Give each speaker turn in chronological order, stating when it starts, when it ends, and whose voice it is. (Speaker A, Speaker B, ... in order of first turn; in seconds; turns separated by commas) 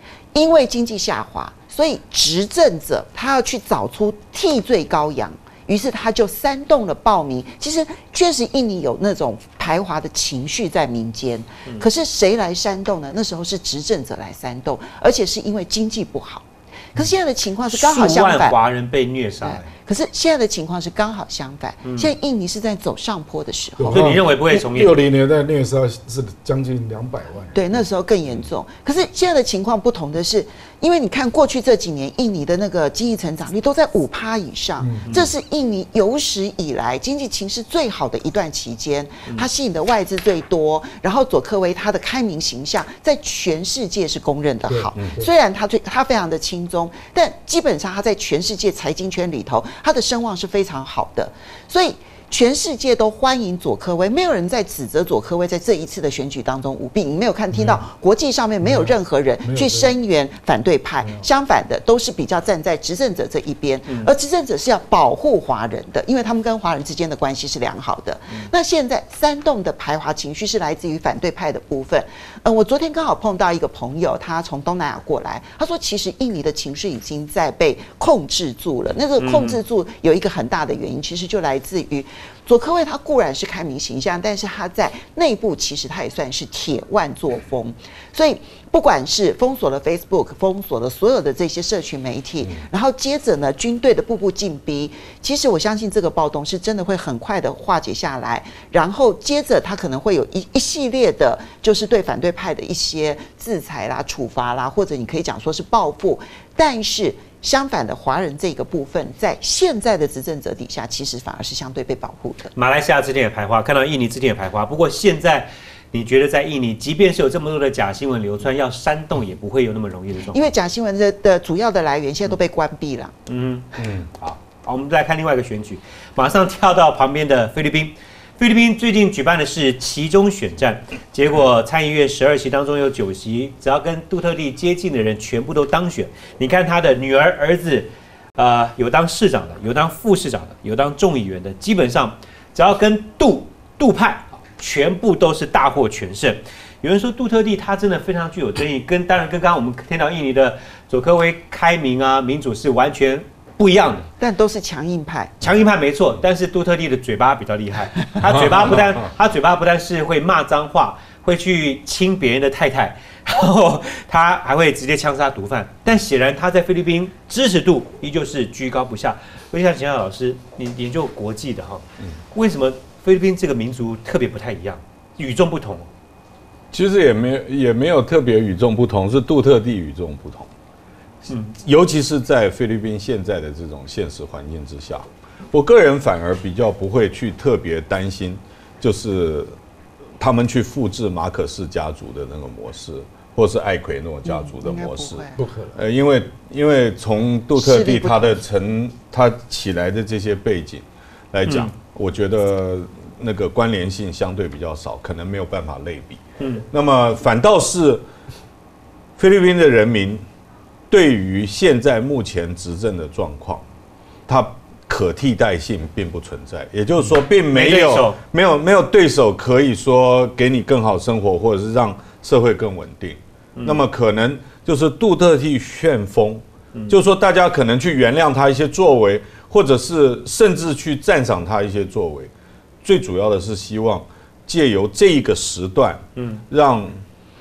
Speaker A: 0.3-18.6, Speaker B: 17.7-19.7, Speaker A: 19.4-24.1, Speaker B: 21.9-22.1, Speaker C: 23.8-27.9, Speaker B: 23.9-25.0, Speaker A: 27.5-112.5, Speaker C: 34.8-35.1, Speaker B: 35.1-35.4, Speaker C: 44.7-45.3, Speaker C: 57.5-57.8, Speaker C: 58.6-59.9, Speaker C: 61.0-61.3, Speaker B: 79.2-79.6, Speaker B: 112.5-120.5, Speaker A: 120.3-123.1, Speaker B: 123.3-154.1, Speaker A: 154.2-155.4, Speaker B: 155.4-175.9, Speaker D: 176.7-180.5, Speaker B: 181.3-181.6, Speaker D: 181.6-189.5, Speaker D: 190.2-208.0, Speaker A: 194.3-195.4, Speaker C: 195.4-195.8, Speaker A: 197.6-198.4, Speaker B: 201.5-201.7, Speaker B: 206.4-206.7, Speaker D: 209.2-210.2, Speaker D: 210.9-213.6, Speaker D: 214.3-232.3, Speaker B: 217.5-218.2, Speaker B: 223.6-223.8, Speaker D: 232.8-237.0, Speaker B: 236.2-236.4